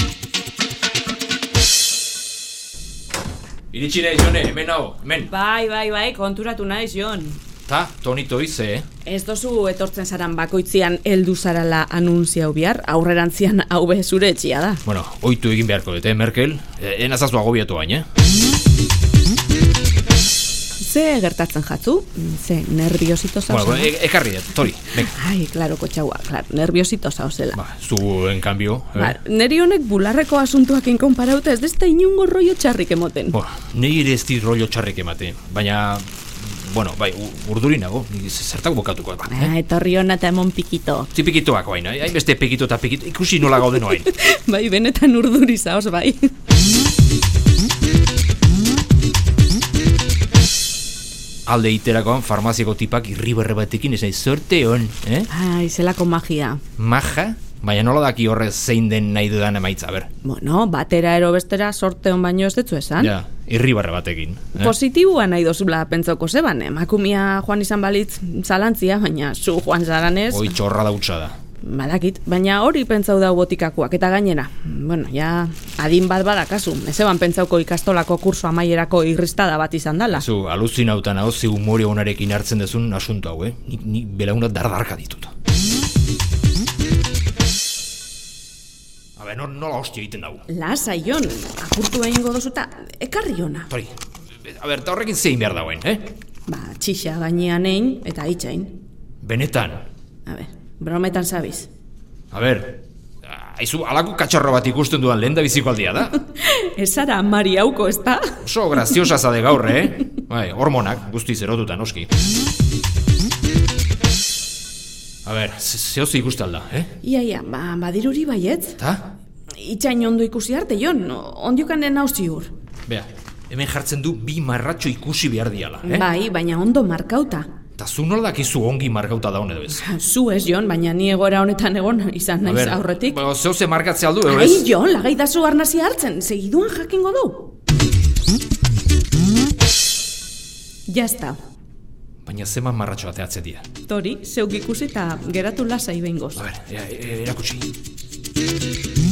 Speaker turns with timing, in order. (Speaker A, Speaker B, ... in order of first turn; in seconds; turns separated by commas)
Speaker A: 3.7-5.3, Speaker B: 5.3-7.4, Speaker A: 7.7-8.9, Speaker B: 9.0-14.8, Speaker A: 14.9-18.1, Speaker B: 20.8-23.9, Speaker A: 23.5-25.1, Speaker B: 25.0-27.6, Speaker A: 27.5-29.2, Speaker B: 29.0-33.4, Speaker A: 33.3-39.5, Speaker B: 39.3-41.1, Speaker A: 41.1-44.1, Speaker B: 43.7-46.3, Speaker A: 51.5-55.3, Speaker B: 55.3-56.6, Speaker A: 56.8-60.1, Speaker B: 60.2-63.1, Speaker A: 63.0-64.8, Speaker B: 64.5-70.6, Speaker A: 70.3-71.4, Speaker B: 71.6-80.2, Speaker A: 80.1-85.3, Speaker A: 89.2-90.5, Speaker B: 90.5-93.7, Speaker A: 93.7-96.1, Speaker B: 96.5-98.8, Speaker A: 99.2-99.9, Speaker B: 100.3-101.7, Speaker A: 102.3-106.2, Speaker B: 106.3-109.0, Speaker A: 108.4-112.1, Speaker A: 115.2-117.0, Speaker B: 117.0-118.8, Speaker A: 118.8-119.1, Speaker B: 119.6-122.5, Speaker A: 122.9-126.1, Speaker B: 125.8-127.5, Speaker A: 127.8-129.8, Speaker B: 129.8-133.2, Speaker A: 132.4-134.7, Speaker B: 134.3-137.5, Speaker B: 140.9-141.4, Speaker A: 142.2-143.7, Speaker B: 143.9-146.4, Speaker A: 146.4-147.7